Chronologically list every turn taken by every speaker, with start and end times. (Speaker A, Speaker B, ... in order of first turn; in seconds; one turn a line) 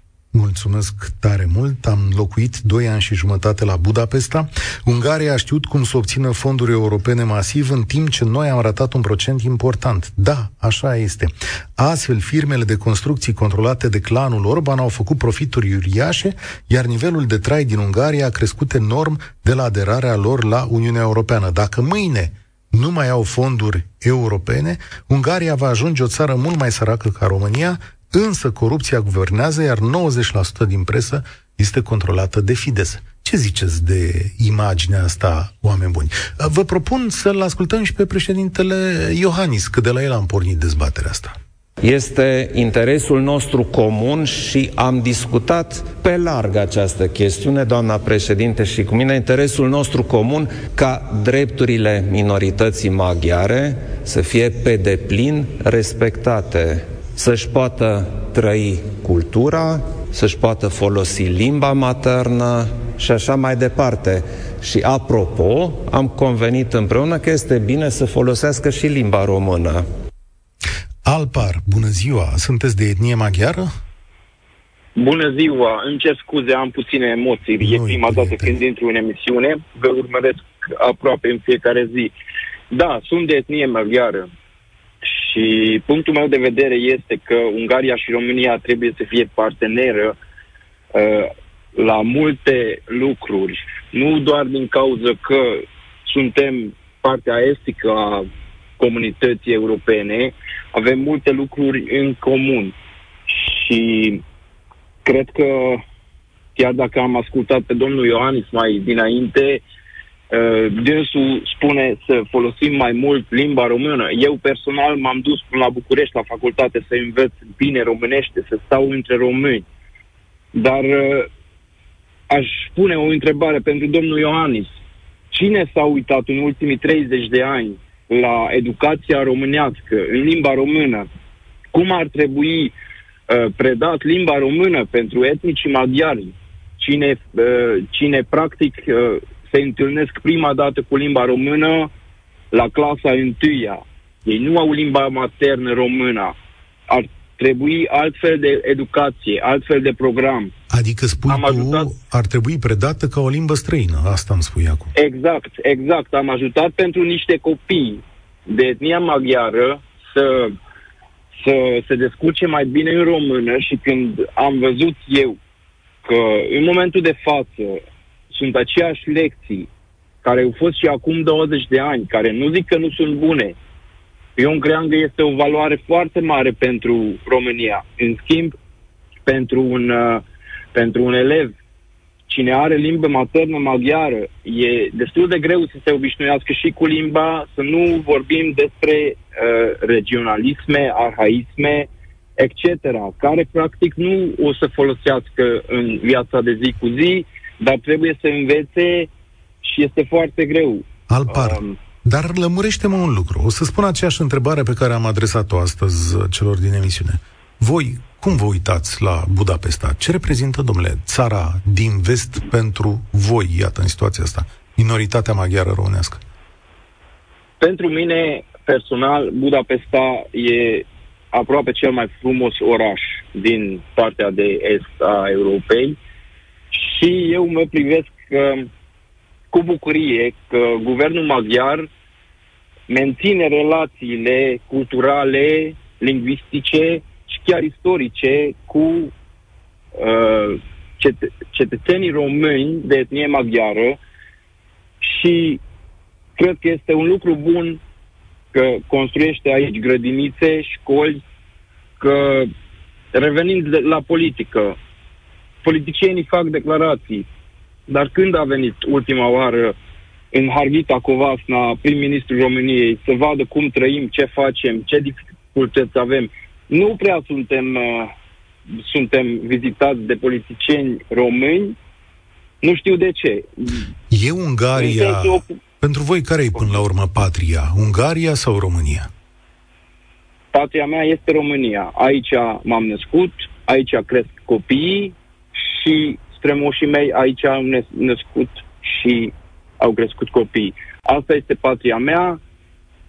Speaker A: 0.3-41.3
Speaker B: 41.8-69.8
Speaker A: 71.0-73.7
Speaker C: 75.0-82.1
Speaker A: 77.6-78.5
Speaker C: 82.7-84.3
Speaker C: 85.0-90.2
Speaker C: 90.9-98.3
Speaker C: 98.8-102.7
Speaker C: 103.3-104.2
Speaker C: 105.0-105.8
Speaker C: 106.5-109.6
Speaker C: 110.3-119.7
Speaker C: 120.5-121.3
Speaker C: 122.3-124.7
Speaker C: 125.3-131.1
Speaker C: 131.7-132.7
Speaker C: 133.3-141.9
Speaker C: 142.5-146.3
Speaker C: 146.9-150.5
Speaker A: 150.7-154.9
Speaker C: 151.2-151.9
Speaker C: 154.9-160.6
Speaker C: 161.4-165.4
Speaker C: 166.0-169.7
Speaker C: 170.2-173.6
Speaker C: 174.3-178.5
Speaker C: 179.2-181.5
Speaker C: 182.3-199.1
Speaker C: 199.6-201.8
Speaker A: 201.1-216.2
Speaker C: 217.6-226.0
Speaker C: 226.7-228.7
Speaker C: 229.5-231.9
Speaker C: 232.9-239.1
Speaker C: 239.9-244.0
Speaker C: 245.0-245.6
Speaker C: 246.4-247.8
Speaker C: 248.5-251.2
Speaker C: 252.0-252.5
Speaker C: 253.1-254.8
Speaker C: 255.6-257.3
Speaker C: 257.9-259.8
Speaker C: 260.3-268.1
Speaker C: 268.7-271.8
Speaker C: 272.6-273.9
Speaker A: 274.1-279.1
Speaker C: 274.7-275.5
Speaker C: 280.5-292.4